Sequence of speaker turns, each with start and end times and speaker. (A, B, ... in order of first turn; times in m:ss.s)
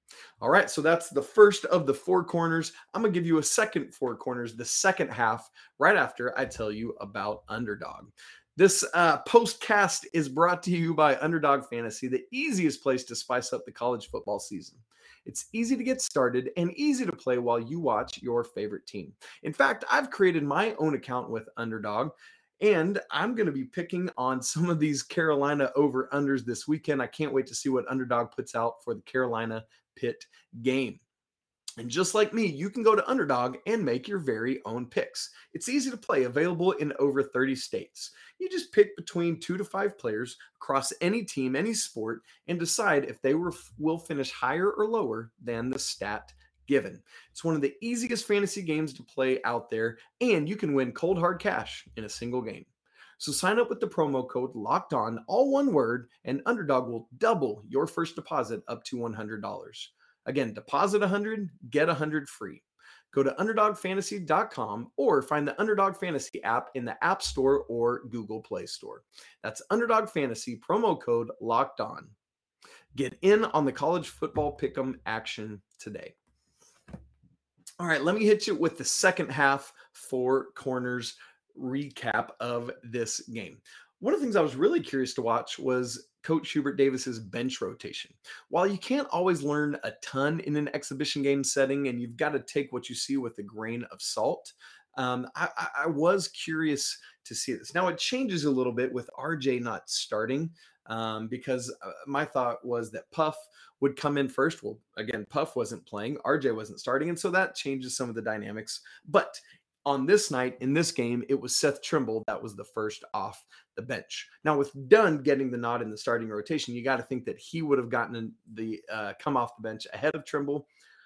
0:00.4-0:31.0 A
0:31.8-1:12.2 A
1:13.0-1:16.2 A
1:17.8-2:00.7 A